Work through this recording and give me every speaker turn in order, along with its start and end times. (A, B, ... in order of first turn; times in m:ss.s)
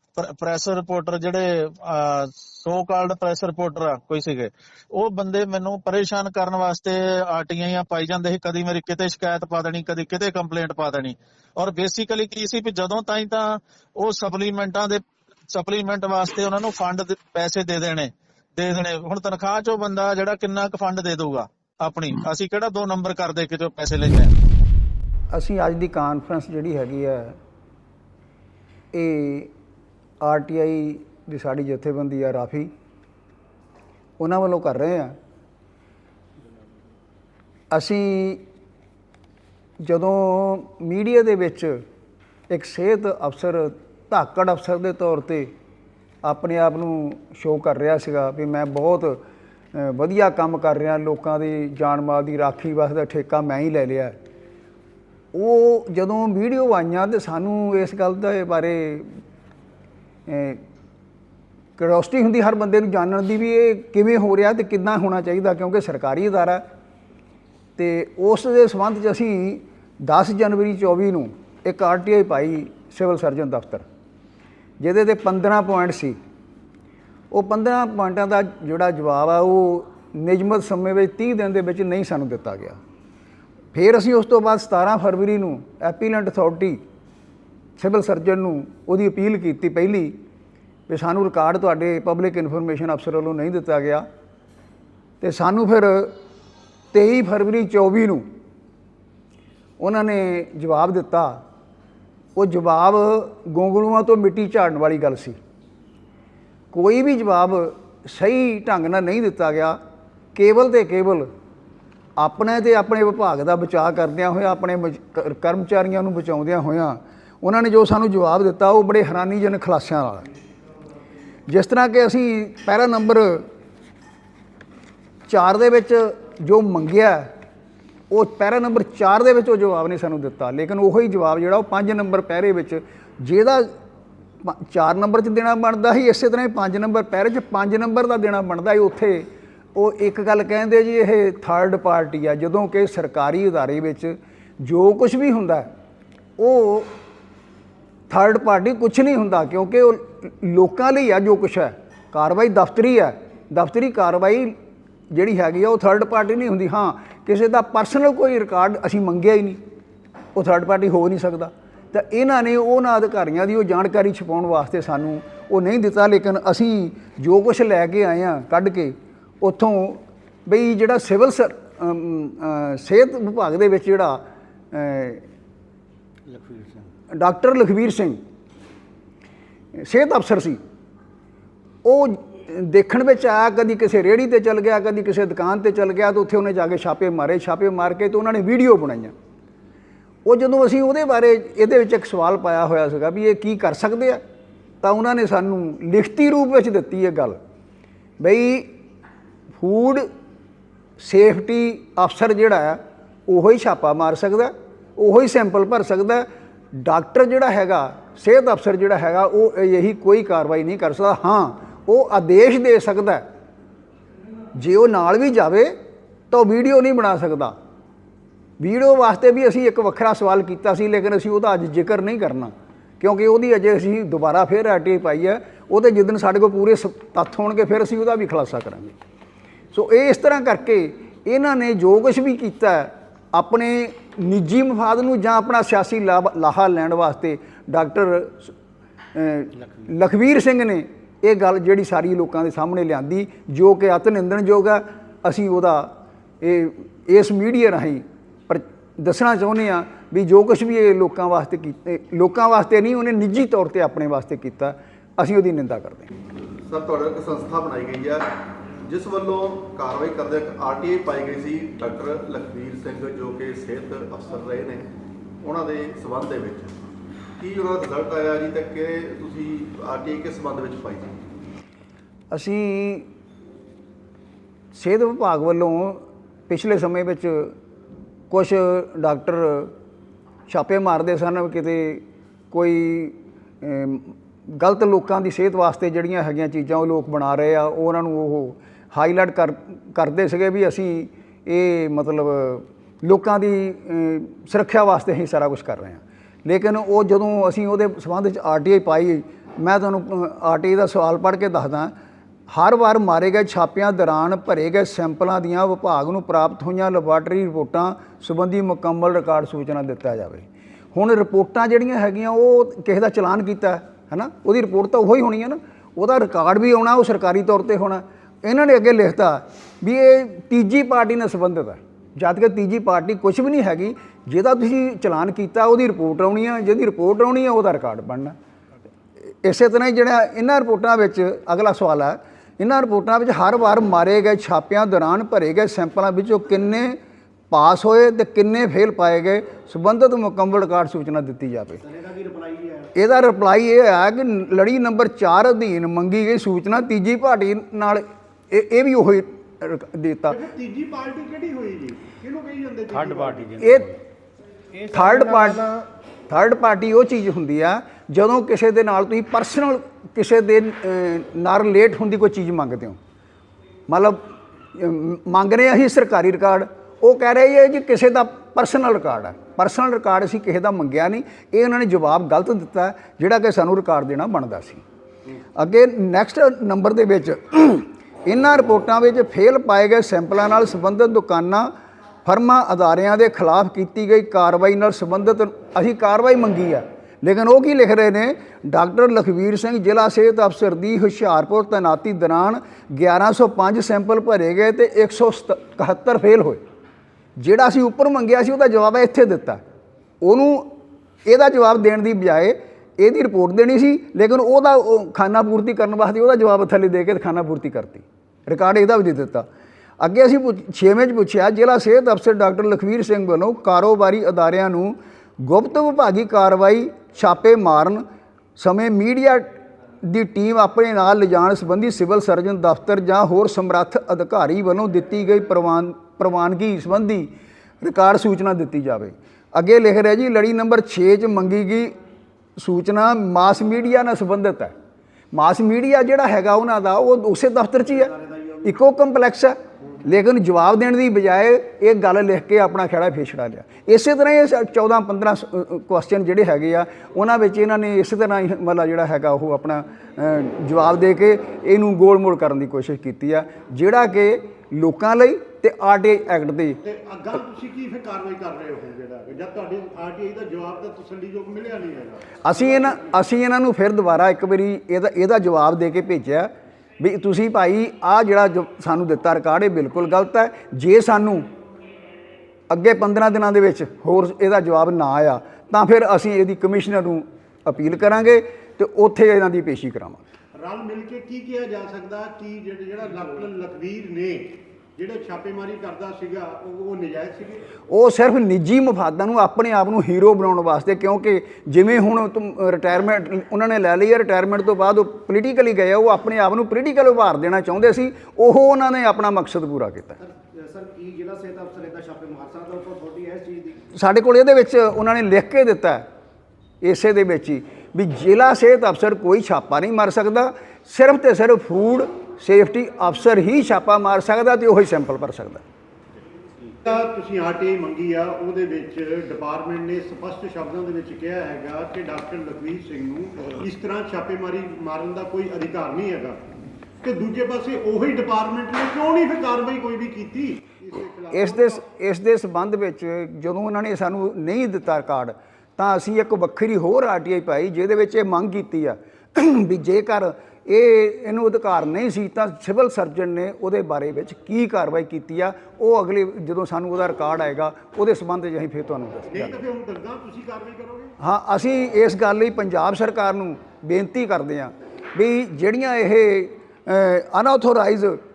0:00.2-0:15.0 A
0:15.5-0:24.3 A
0:25.3-0:27.4 B
0:28.9-0:29.5 B
0:30.2-0:32.7 B
0:34.2-0:35.1 B
0:37.7-0:38.4 B
0:39.8-0:41.8 B
0:42.5-0:45.5 B
0:46.2-0:49.2 B
0:49.7-0:54.2 B
0:55.3-0:59.1 B
1:00.3-1:00.6 B
1:01.8-1:06.6 B
1:07.8-1:13.8 B
1:14.8-1:16.2 B
1:17.3-1:22.8 B
1:23.7-1:26.8 B
1:27.8-1:30.1 B
1:30.9-1:34.0 B
1:35.2-1:36.1 B
1:36.9-1:38.2 B
1:39.8-1:41.4 B
1:42.4-1:45.4 B
1:46.7-1:49.8 B
1:50.4-1:51.3 B
1:52.2-2:00.3 B
2:01.5-2:03.4 B
2:05.3-2:07.3 B
2:08.1-2:13.7 B
2:14.4-2:25.7 B
2:26.4-2:26.9 B
2:28.1-2:34.5 B
2:35.1-2:39.6 B
2:40.4-2:54.2 B
2:54.7-2:55.2 B
2:56.3-2:56.9 C
2:57.1-2:58.2 B
2:59.8-3:00.6 B
3:01.8-3:09.1 B
3:10.3-3:14.2 B
3:14.8-3:17.4 B
3:18.2-3:18.7 B
3:19.6-3:20.1 B
3:21.0-3:26.2 B
3:26.8-3:33.2 B
3:34.6-3:35.7 B
3:36.3-3:37.5 B
3:38.6-3:48.9 B
3:49.7-3:58.5 B
3:59.1-4:16.1 B
4:16.7-4:18.3 D
4:18.9-4:24.9 D
4:25.4-4:26.8 D
4:27.4-4:31.2 D
4:32.3-4:33.1 B
4:34.8-4:37.5 B
4:38.3-4:39.7 B
4:40.5-5:01.9 B
5:02.5-5:28.3 B
5:29.4-5:37.0 B
5:37.5-5:41.8 B
5:41.8-5:42.8 C
5:43.0-5:50.4 B
5:50.3-5:53.6 E
5:52.9-5:53.9 C
5:53.6-5:53.9 B
5:54.9-5:55.6 C
5:54.9-5:55.7 B
5:56.3-6:03.0 B
6:03.9-6:04.2 B
6:04.7-6:14.8 B
6:15.6-6:21.7 B
6:22.3-6:36.6 B
6:37.4-6:39.6 B
6:40.2-6:40.8 B
6:41.3-6:49.4 B
6:50.0-6:58.0 B
6:58.6-6:59.5 B
7:00.0-7:07.3 B
7:07.8-7:11.9 B
7:12.6-7:14.7 B
7:15.3-7:36.8 B
7:36.8-7:42.4 E
7:42.4-7:51.4 B
7:52.7-8:00.2 B
8:00.6-8:07.7 E
8:07.9-8:20.2 B
8:20.2-8:23.8 C
8:24.0-8:26.0 B
8:26.8-8:35.6 B
8:36.8-8:46.4 E
8:47.0-8:51.8 E
8:51.3-9:09.6 B
9:09.3-9:11.1 E
9:11.2-9:18.2 B